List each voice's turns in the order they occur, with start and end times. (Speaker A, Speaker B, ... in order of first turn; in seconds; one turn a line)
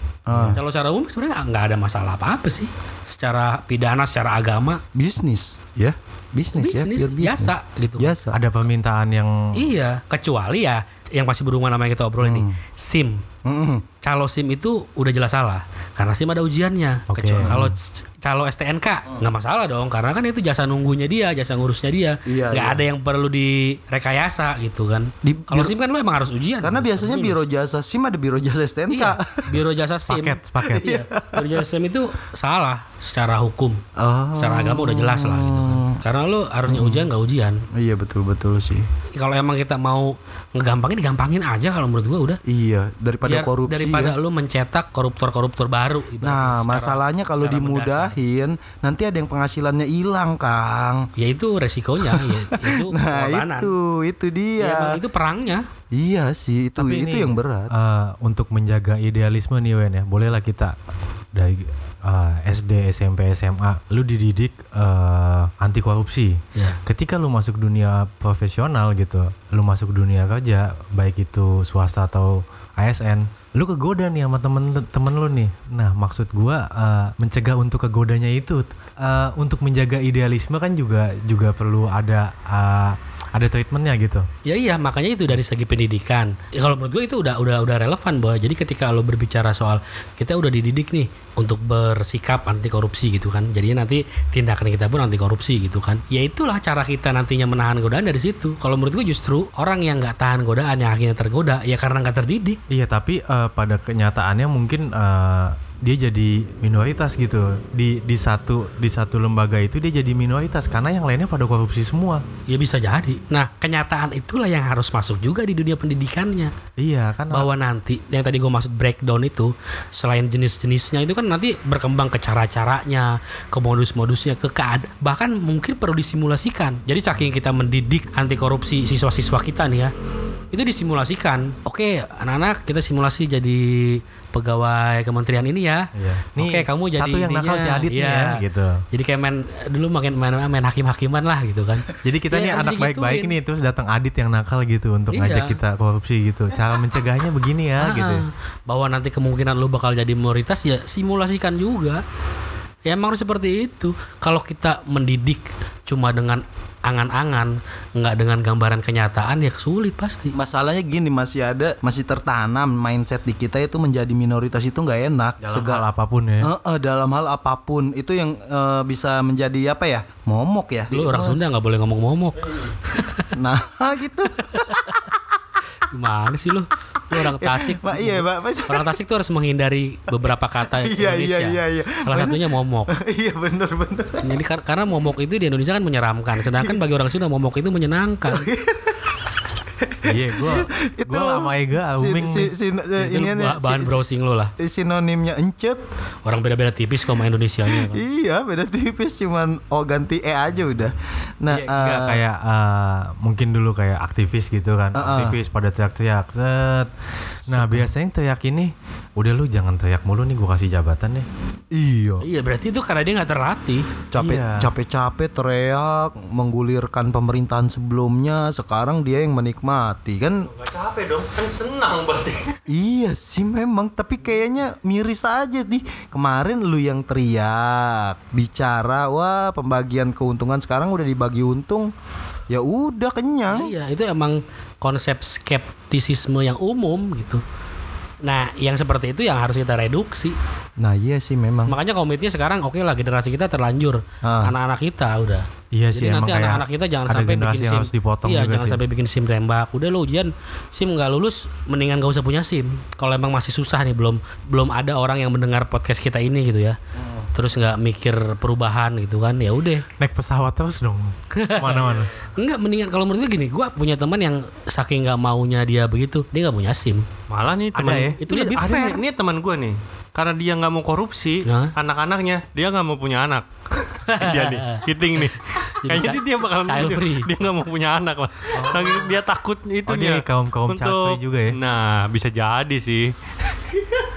Speaker A: 0.3-0.6
Speaker B: 0.5-4.8
Speaker A: 5.0-8.4
Speaker B: 6.5-8.1
Speaker C: 8.3-9.6
Speaker B: 9.5-13.2
Speaker A: 12.2-12.6
Speaker A: 13.4-13.8
Speaker B: 14.0-27.4
Speaker C: 17.1-17.6
Speaker A: 17.4-17.7
Speaker A: 22.3-22.8
Speaker A: 25.2-25.8
Speaker A: 26.6-29.6
Speaker B: 28.9-33.8
Speaker C: 30.1-30.9
Speaker A: 30.6-31.6
Speaker A: 34.0-36.0
Speaker B: 34.4-37.6
Speaker A: 36.7-37.1
Speaker A: 37.7-38.9
Speaker B: 39.1-42.4
Speaker A: 42.5-44.1
Speaker B: 43.2-48.2
Speaker A: 46.2-51.1
Speaker B: 51.2-53.7
Speaker A: 52.1-55.0
Speaker B: 54.6-55.7
Speaker A: 55.9-57.7
Speaker C: 56.8-60.8
Speaker C: 61.3-84.3
Speaker B: 84.5-102.6
Speaker C: 102.7-112.2
Speaker B: 112.5-116.5
Speaker C: 116.8-117.5
Speaker B: 117.3-129.9
Speaker B: 130.5-143.3
Speaker C: 135.9-138.8
Speaker C: 142.0-148.2
Speaker B: 145.1-145.6
Speaker B: 147.8-152.0
Speaker B: 152.9-160.3
Speaker A: 160.3-165.8
Speaker C: 165.4-166.5
Speaker A: 166.4-171.4
Speaker B: 170.9-173.3
Speaker A: 173.3-175.0
Speaker B: 174.4-174.9
Speaker B: 175.9-182.9
Speaker A: 177.1-178.9
Speaker A: 180.7-184.3
Speaker B: 184.2-188.5
Speaker A: 186.6-186.8
Speaker A: 188.3-189.1
Speaker A: 189.8-194.0
Speaker C: 190.1-192.5
Speaker B: 193.0-194.5
Speaker A: 194.6-195.8
Speaker B: 196.2-198.0
Speaker A: 197.7-202.2
Speaker C: 201.5-206.9
Speaker A: 204.9-205.4
Speaker C: 207.5-211.3
Speaker A: 207.5-207.9
Speaker A: 211.7-212.2
Speaker B: 212.2-213.9
Speaker A: 214.1-220.5
Speaker C: 214.2-214.7
Speaker D: 220.5-222.6
Speaker A: 222.7-231.9
Speaker A: 232.5-233.7
Speaker B: 233.5-237.4
Speaker B: 238.2-240.4
Speaker A: 240.8-241.8
Speaker B: 241.7-256.8
Speaker A: 244.2-244.5
Speaker C: 245.7-248.8
Speaker A: 257.0-257.3
Speaker B: 257.3-259.9
Speaker C: 260.0-262.2
Speaker B: 261.3-267.1
Speaker D: 261.8-262.1
Speaker D: 267.3-273.4
Speaker C: 267.8-268.9
Speaker B: 268.2-269.0
Speaker B: 271.4-271.7
Speaker B: 274.1-274.9
Speaker D: 274.1-283.1
Speaker B: 275.7-277.3
Speaker C: 279.9-281.6